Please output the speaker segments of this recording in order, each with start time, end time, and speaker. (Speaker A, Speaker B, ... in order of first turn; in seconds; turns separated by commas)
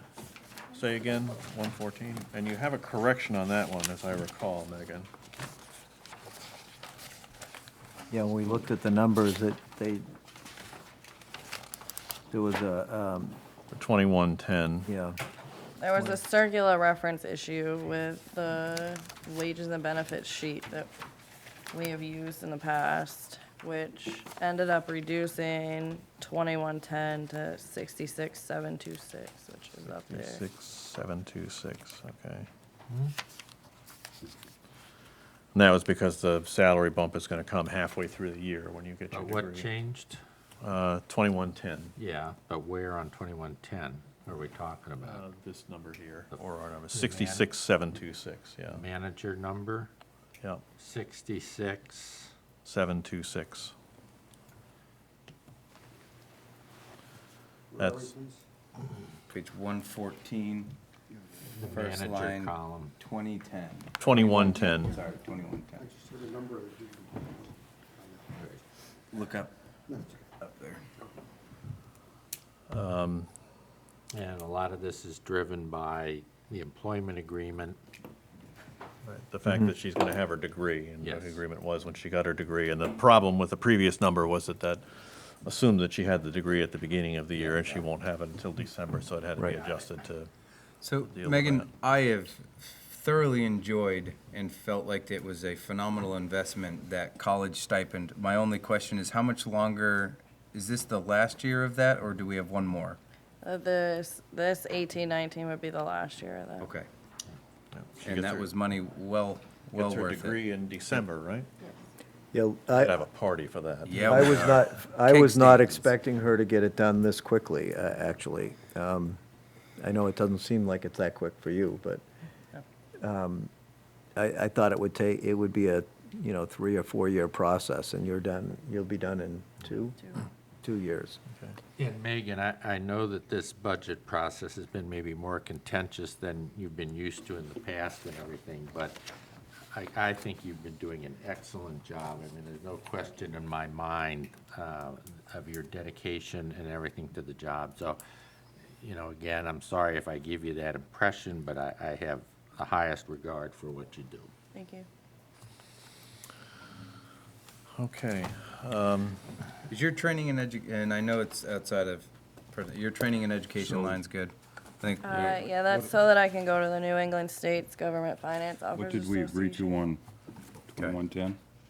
Speaker A: 0.7-5.1, Speaker B: 8.1-10.0, Speaker B: 12.3-13.4, Speaker A: 13.7-14.9, Speaker B: 14.9-15.2, Speaker C: 15.8-20.9, Speaker C: 21.7-30.4, Speaker A: 29.9-32.5, Speaker A: 35.5-39.7, Speaker D: 39.1-40.2, Speaker A: 40.6-42.0, Speaker D: 42.0-45.2, Speaker A: 45.0-48.8, Speaker D: 46.3-47.5, Speaker D: 48.7-49.9, Speaker D: 50.8-52.3, Speaker A: 52.6-53.7, Speaker A: 57.8-58.2, Speaker E: 59.3-60.8, Speaker D: 61.5-63.0, Speaker E: 61.6-66.0, Speaker A: 64.0-65.0, Speaker D: 68.3-68.6, Speaker E: 69.1-70.8, Speaker A: 72.7-73.3, Speaker D: 74.1-77.8, Speaker A: 79.0-90.3, Speaker D: 81.0-81.4, Speaker D: 87.4-87.8, Speaker E: 90.8-103.0, Speaker A: 91.0-91.7, Speaker C: 103.4-106.7, Speaker E: 106.6-106.9, Speaker A: 107.8-108.5, Speaker E: 108.0-110.5, Speaker A: 109.7-111.5, Speaker B: 112.3-113.0, Speaker A: 112.8-114.7, Speaker E: 113.9-115.9, Speaker B: 114.0-119.2, Speaker B: 119.8-122.0, Speaker B: 123.0-123.5, Speaker B: 124.2-131.2, Speaker D: 131.8-139.0, Speaker D: 139.7-148.0, Speaker D: 148.8-154.3, Speaker C: 154.5-154.9, Speaker A: 157.8-159.2, Speaker E: 159.7-165.6, Speaker F: 163.6-164.0, Speaker C: 165.0-169.8, Speaker F: 165.7-165.9, Speaker F: 168.7-170.0, Speaker F: 170.7-171.4